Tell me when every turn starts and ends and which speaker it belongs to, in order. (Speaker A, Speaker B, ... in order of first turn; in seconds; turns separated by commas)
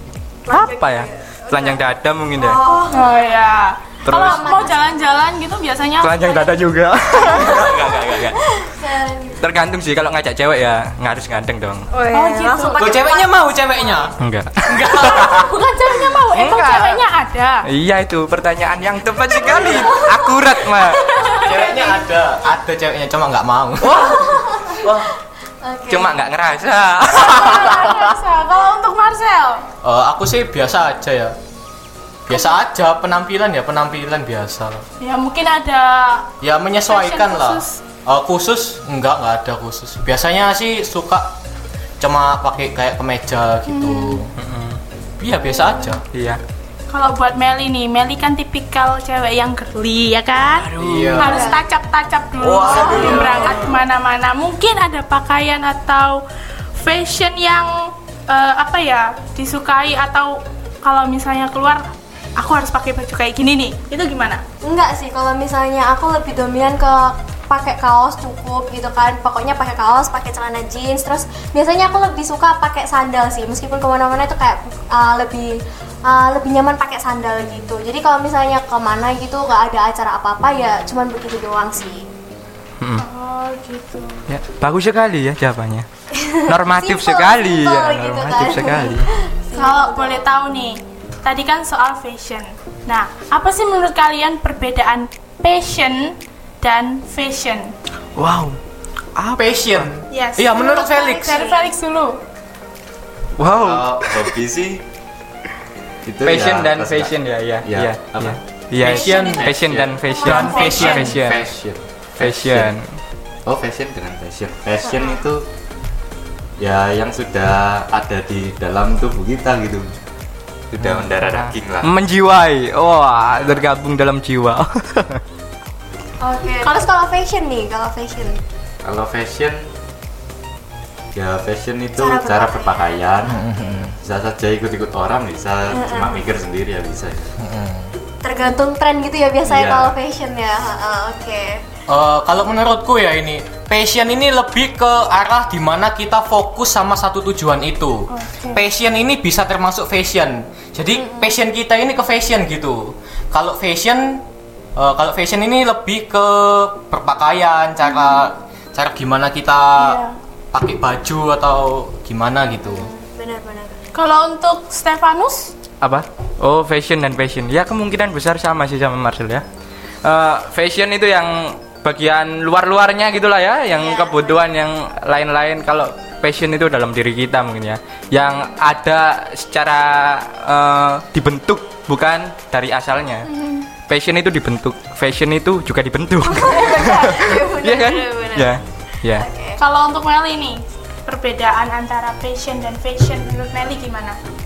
Speaker A: 0.5-1.8, Speaker B: 0.5-2.6, Speaker A: 2.4-3.4, Speaker C: 2.9-6.6, Speaker B: 4.0-4.5, Speaker A: 4.1-5.0, Speaker B: 6.0-8.3, Speaker D: 7.5-8.3, Speaker A: 8.5-9.4, Speaker B: 9.4-11.9, Speaker A: 11.9-14.1, Speaker C: 12.1-12.8, Speaker E: 12.8-14.2, Speaker B: 14.2-15.5, Speaker E: 14.7-15.5, Speaker C: 14.9-17.6, Speaker B: 16.3-17.0, Speaker B: 17.6-21.1, Speaker A: 19.4-22.1, Speaker C: 21.1-21.5, Speaker E: 21.4-24.1, Speaker B: 23.8-25.1, Speaker A: 24.0-24.9, Speaker A: 25.6-26.2, Speaker B: 25.9-28.1, Speaker C: 27.1-29.6, Speaker E: 29.8-31.3, Speaker E: 32.3-34.8, Speaker C: 35.0-36.3, Speaker E: 36.4-41.3, Speaker C: 36.9-37.8, Speaker E: 42.0-44.3, Speaker C: 43.7-44.3, Speaker B: 44.4-44.8, Speaker E: 45.2-46.0, Speaker A: 45.5-46.0, Speaker B: 46.1-46.4, Speaker C: 46.9-56.2, Speaker B: 50.6-51.4, Speaker E: 50.8-51.5, Speaker A: 51.2-51.6, Speaker E: 52.4-53.5, Speaker A: 52.6-53.8, Speaker B: 52.8-53.1, Speaker D: 52.9-53.8, Speaker C: 56.7-64.4, Speaker A: 64.6-82.1, Speaker C: 83.0-84.2, Speaker B: 84.3-85.8, Speaker A: 86.1-90.2, Speaker B: 86.4-89.1, Speaker C: 89.5-97.7, Speaker B: 98.2-98.6, Speaker B: 99.2-99.9, Speaker E: 99.4-101.4, Speaker C: 100.1-102.2, Speaker A: 101.3-101.7, Speaker B: 103.4-104.3, Speaker D: 103.4-104.8, Speaker D: 106.0-107.1, Speaker B: 106.2-111.5, Speaker D: 107.6-108.4, Speaker E: 108.8-111.2, Speaker A: 108.8-109.5, Speaker A: 110.0-111.1, Speaker C: 110.3-111.1, Speaker D: 111.0-112.7, Speaker B: 112.2-112.9, Speaker D: 113.5-115.5, Speaker A: 114.9-115.2, Speaker D: 116.6-119.9, Speaker D: 120.7-121.9, Speaker B: 121.0-125.2, Speaker D: 123.4-123.7, Speaker A: 126.2-128.4, Speaker D: 128.8-129.6, Speaker D: 131.1-137.3, Speaker A: 132.0-133.0, Speaker E: 133.2-133.9, Speaker A: 135.7-136.2, Speaker E: 137.4-137.9, Speaker A: 138.2-141.6, Speaker D: 139.4-139.9, Speaker E: 141.9-154.2, Speaker C: 148.1-148.6, Speaker A: 150.9-151.4, Speaker E: 154.8-160.0, Speaker C: 159.8-160.2, Speaker E: 160.5-162.9, Speaker A: 162.5-163.8, Speaker C: 163.9-165.5, Speaker B: 165.8-169.4, Speaker B: 170.0-183.3, Speaker A: 173.8-174.4, Speaker C: 183.3-183.7, Speaker B: 183.9-189.2, Speaker A: 186.2-188.6, Speaker A: 189.1-189.6, Speaker C: 189.6-194.2